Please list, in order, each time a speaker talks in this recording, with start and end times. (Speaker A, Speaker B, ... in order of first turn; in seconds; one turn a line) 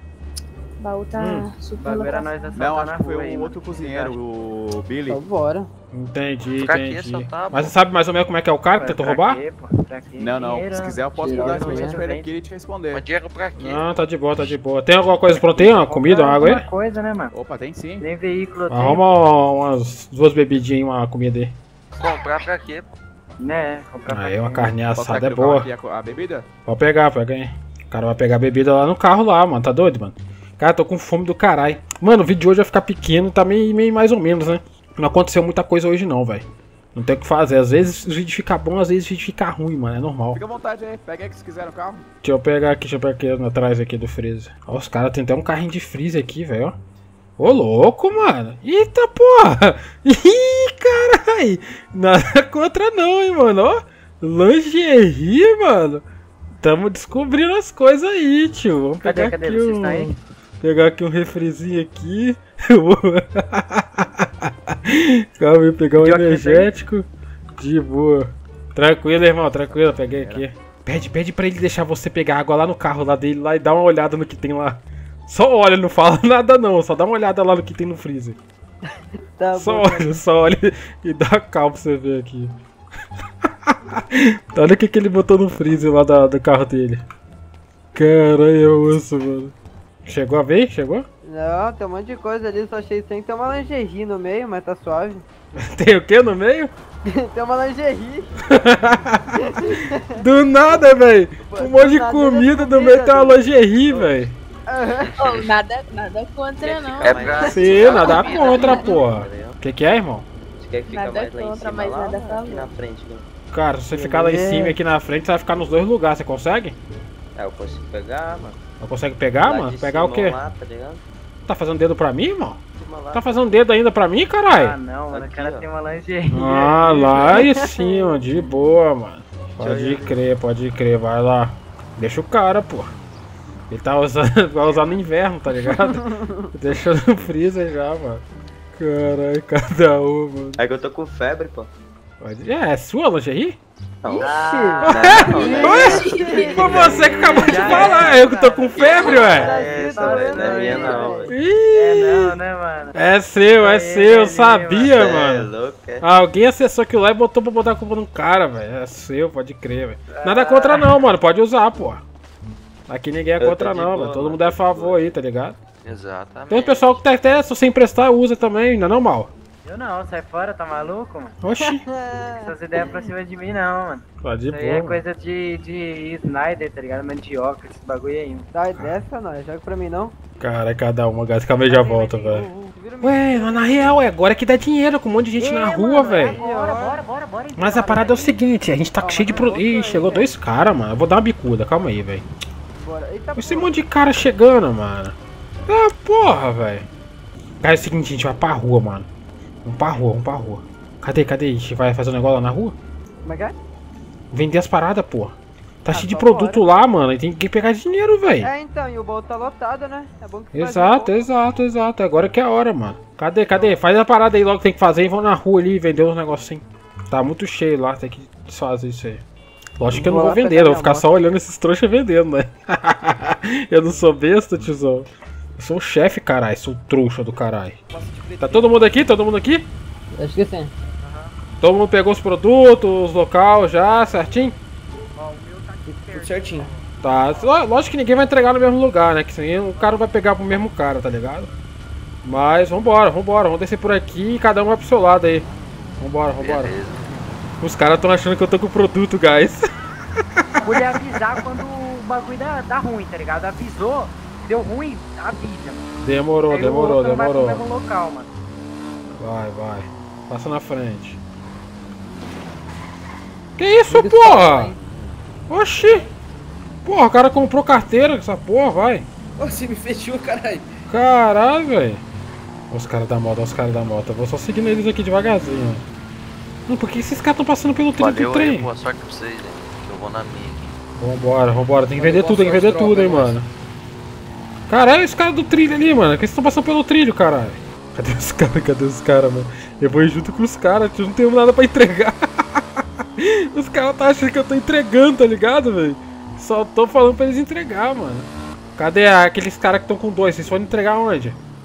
Speaker A: 0.8-2.5
Speaker B: 1.1-1.5
Speaker C: 1.8-4.2
Speaker D: 2.5-5.2
Speaker E: 5.1-5.7
Speaker B: 5.9-9.4
Speaker F: 6.6-7.7
Speaker C: 8.8-12.3
Speaker D: 10.2-13.1
Speaker E: 11.2-12.0
Speaker F: 12.9-13.9
Speaker B: 13.6-16.7
Speaker D: 15.4-16.0
Speaker C: 15.9-17.3
Speaker D: 17.3-18.1
Speaker C: 18.0-19.0
Speaker B: 18.7-21.5
Speaker F: 21.9-22.9
Speaker C: 23.4-24.7
Speaker B: 24.1-25.7
Speaker D: 24.8-26.4
Speaker B: 26.6-40.4
Speaker D: 40.3-42.0
Speaker B: 42.2-46.8
Speaker B: 47.4-56.0
Speaker B: 56.6-78.4
Speaker C: 59.0-60.1
Speaker C: 66.0-66.7
Speaker D: 69.8-70.4
Speaker E: 79.3-80.2
Speaker B: 79.5-82.5
Speaker B: 83.4-87.0
Speaker B: 87.9-89.5
Speaker B: 90.0-91.0
Speaker E: 91.2-95.2
Speaker B: 95.5-96.7
Speaker E: 97.0-98.4
Speaker B: 98.5-104.3
Speaker E: 99.3-100.0
Speaker E: 101.5-103.5
Speaker E: 104.7-105.1
Speaker F: 105.0-105.5
Speaker A: 105.2-109.0
Speaker G: 106.6-109.5
Speaker F: 106.6-108.9
Speaker B: 107.5-110.3
Speaker G: 110.6-113.3
Speaker A: 110.9-112.7
Speaker B: 113.5-116.8
Speaker E: 113.9-114.8
Speaker G: 117.3-118.6
Speaker B: 118.8-120.4
Speaker G: 119.4-121.0
Speaker B: 121.5-122.6
Speaker G: 122.7-123.5
Speaker B: 123.1-124.8
Speaker C: 124.5-127.1
Speaker G: 125.1-125.7
Speaker B: 126.3-132.9
Speaker E: 127.1-128.0
Speaker G: 129.6-130.1
Speaker B: 133.7-140.6
Speaker E: 136.0-136.3
Speaker G: 140.6-141.7
Speaker B: 142.2-143.6
Speaker G: 144.0-151.3
Speaker B: 144.2-149.5
Speaker E: 144.2-151.3
Speaker A: 145.2-147.6
Speaker C: 147.4-148.3
Speaker C: 148.8-151.1
Speaker B: 151.3-152.4
Speaker C: 151.7-152.9
Speaker B: 152.9-162.0
Speaker C: 153.6-155.0
Speaker G: 154.8-156.0
Speaker G: 160.2-160.8
Speaker B: 162.9-165.6
Speaker G: 163.4-165.1
Speaker F: 165.8-167.0
Speaker B: 166.5-169.3
Speaker C: 169.6-171.3
Speaker B: 171.4-171.8
Speaker E: 171.6-173.1
Speaker C: 172.3-178.5
Speaker B: 174.2-175.0
Speaker E: 178.5-180.1
Speaker B: 178.7-179.0
Speaker B: 180.4-182.5
Speaker E: 181.7-184.0
Speaker B: 183.0-186.4
Speaker C: 185.4-188.4
Speaker E: 186.3-187.0
Speaker B: 187.6-192.2
Speaker E: 189.0-190.3
Speaker E: 192.7-193.8
Speaker B: 193.3-195.2
Speaker B: 195.7-196.8
Speaker B: 197.6-199.1
Speaker B: 199.6-202.8
Speaker E: 203.2-203.5
Speaker B: 204.3-208.5
Speaker E: 205.9-206.7
Speaker E: 208.4-211.3
Speaker B: 210.5-219.2
Speaker B: 219.8-227.8
Speaker E: 219.9-221.2
Speaker H: 227.9-229.2
Speaker B: 228.4-229.7
Speaker E: 230.1-230.7
Speaker C: 231.0-231.3
Speaker B: 231.6-234.5
Speaker C: 234.0-234.3
Speaker C: 235.2-237.6
Speaker H: 236.1-236.7
Speaker B: 237.0-241.5
Speaker C: 239.7-240.1
Speaker B: 242.2-245.5
Speaker B: 246.0-246.8
Speaker F: 246.4-247.1
Speaker B: 247.6-249.7
Speaker C: 250.6-255.8
Speaker B: 250.6-251.0
Speaker B: 256.0-257.6
Speaker C: 256.5-258.3
Speaker B: 259.2-261.2
Speaker B: 263.6-264.7
Speaker E: 263.9-264.8
Speaker B: 265.5-266.1
Speaker B: 266.8-269.1
Speaker H: 269.4-270.7
Speaker B: 270.9-272.0
Speaker B: 272.7-275.8
Speaker B: 276.7-278.7
Speaker F: 278.0-280.7
Speaker B: 280.9-283.5
Speaker E: 282.0-283.3
Speaker B: 284.7-301.4